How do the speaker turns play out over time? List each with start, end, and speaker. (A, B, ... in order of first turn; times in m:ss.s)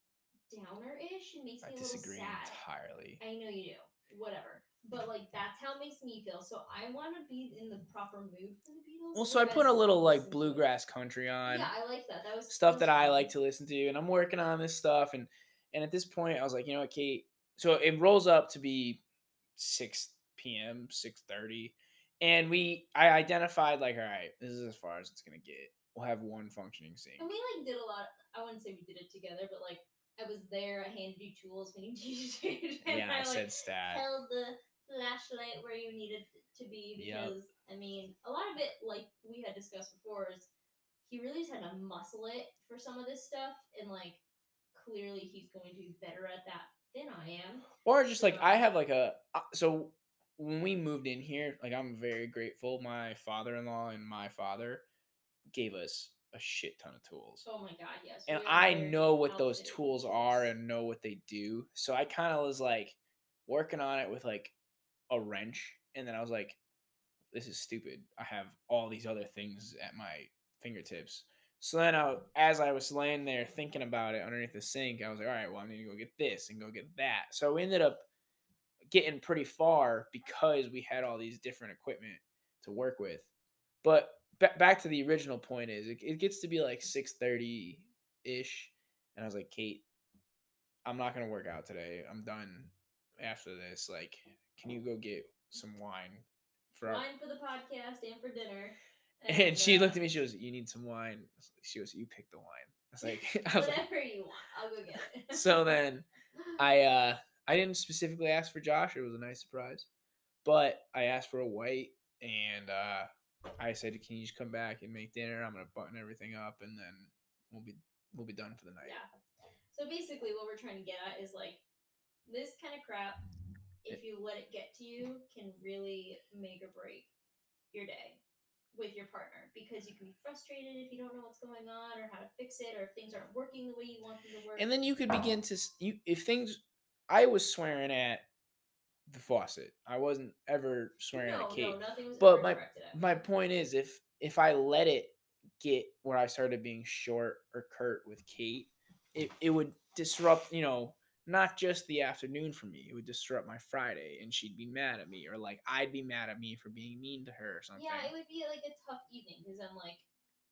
0:00.5-0:02.6 A
0:01.6-0:03.2 B
0:03.2-0:10.7 A
0:09.1-0:11.7 B
0:11.5-0:13.3 A
0:12.5-0:19.0 B
0:19.6-0:27.2 B
0:27.2-0:40.5 A
0:32.9-0:34.0 B
0:37.0-0:37.3 B
0:41.1-0:44.2 A
0:44.7-0:48.7 A
0:47.8-0:54.8 B
0:55.5-0:57.5 B
0:57.4-1:00.5 A
0:58.3-1:04.5 B
1:05.1-1:06.6 B
1:07.3-1:18.0 B
1:18.9-1:23.3 B
1:23.8-1:29.8 B
1:30.8-1:37.0 B
1:36.9-1:40.0 A
1:39.3-1:43.8 B
1:43.0-1:45.8 A
1:45.3-1:46.1 B
1:46.6-1:49.9 B
1:50.4-1:59.0 B
1:58.8-1:59.1 A
1:59.7-2:01.6 A
2:02.3-2:03.2 A
2:03.8-2:07.1 A
2:07.7-2:08.2 A
2:08.7-2:14.7 A
2:14.6-2:18.3 B
2:19.1-2:38.1 B
2:21.1-2:23.0 A
2:37.8-2:40.1 A